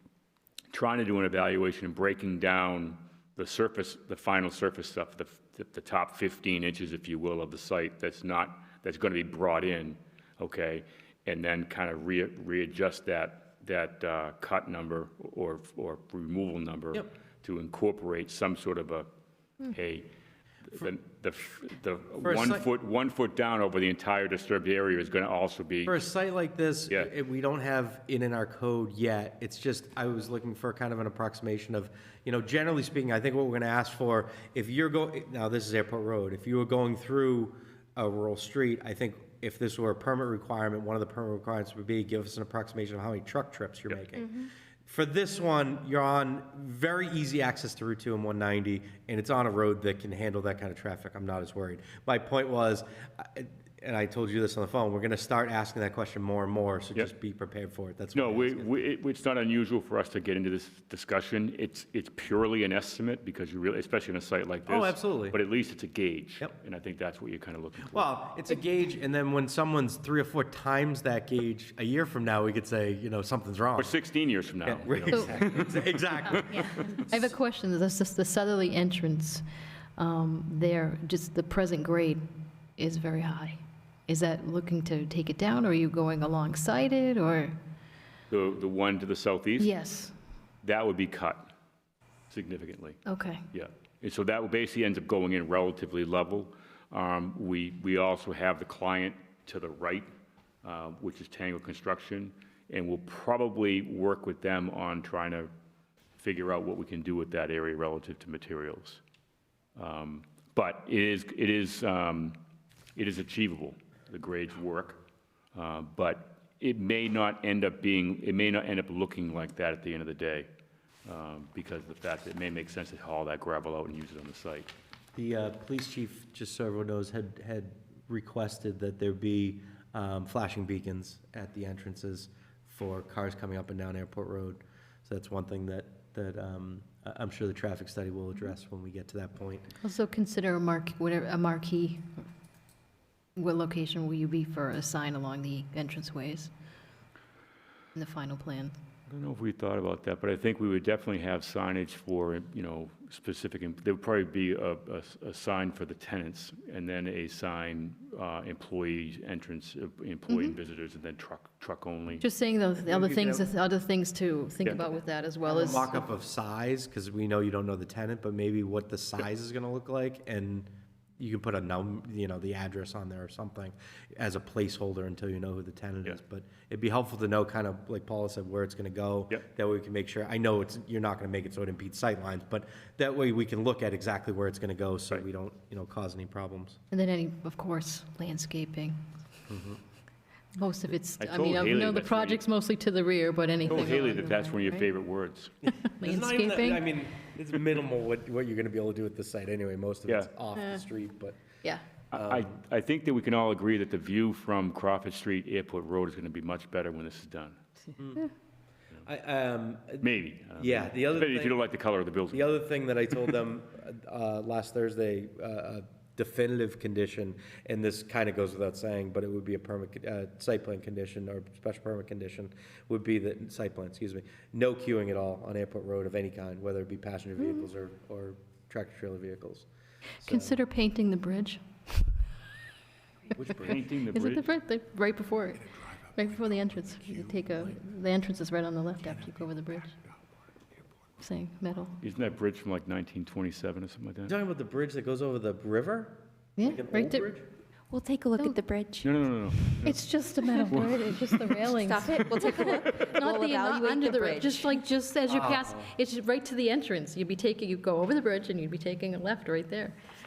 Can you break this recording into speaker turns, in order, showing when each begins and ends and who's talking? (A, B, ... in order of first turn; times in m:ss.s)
0:00.7-0:19.1 A
0:19.6-0:20.1 A
0:20.7-0:26.0 A
0:22.2-0:22.7 B
0:25.8-0:58.8 B
0:58.1-1:08.2 A
1:04.7-1:05.4 B
1:07.9-1:13.9 B
1:13.8-1:16.8 A
1:14.6-1:17.3 B
1:15.1-1:15.4 C
1:16.3-1:19.4 C
1:20.0-1:22.2 C
1:22.8-1:27.6 C
1:28.3-1:29.7 A
1:29.6-1:30.1 C
1:30.6-1:31.5 A
1:32.3-1:40.1 A
1:33.0-1:33.5 C
1:40.6-1:45.5 A
1:46.2-1:49.0 A
1:49.8-1:52.4 A
1:53.0-1:55.0 A
1:55.5-2:00.5 A
2:01.0-2:04.7 A
2:05.1-2:19.6 B
2:19.8-2:22.2 C
2:23.4-2:26.5 C
2:27.9-2:28.7 C
2:29.1-2:42.2 A
2:40.3-2:40.6 C
2:42.2-2:46.0 C
2:42.8-2:43.6 B
2:45.4-3:06.8 B
3:06.9-3:09.0 C
3:09.5-3:09.8 B
3:10.5-3:14.9 C
3:11.2-3:12.4 A
3:13.7-3:15.5 A
3:13.7-3:14.0 B
3:15.6-3:17.0 C
3:16.0-3:21.4 B
3:20.6-3:20.8 C
3:22.1-3:27.6 A
3:22.1-3:22.5 B
3:28.0-3:28.2 B
3:29.0-3:31.6 B
3:30.0-3:32.6 A
3:32.3-3:49.7 B
3:50.2-3:50.6 B
3:50.2-3:51.6 C
3:53.3-3:54.5 A
3:53.6-4:00.0 C
4:01.2-4:02.0 C
4:02.0-4:04.3 A
4:04.3-4:07.4 B
4:06.6-4:07.3 C
4:07.9-4:09.1 D
4:09.0-4:10.0 A
4:09.8-4:20.0 C
4:10.7-4:11.2 A
4:11.6-4:14.8 D
4:15.2-4:15.9 B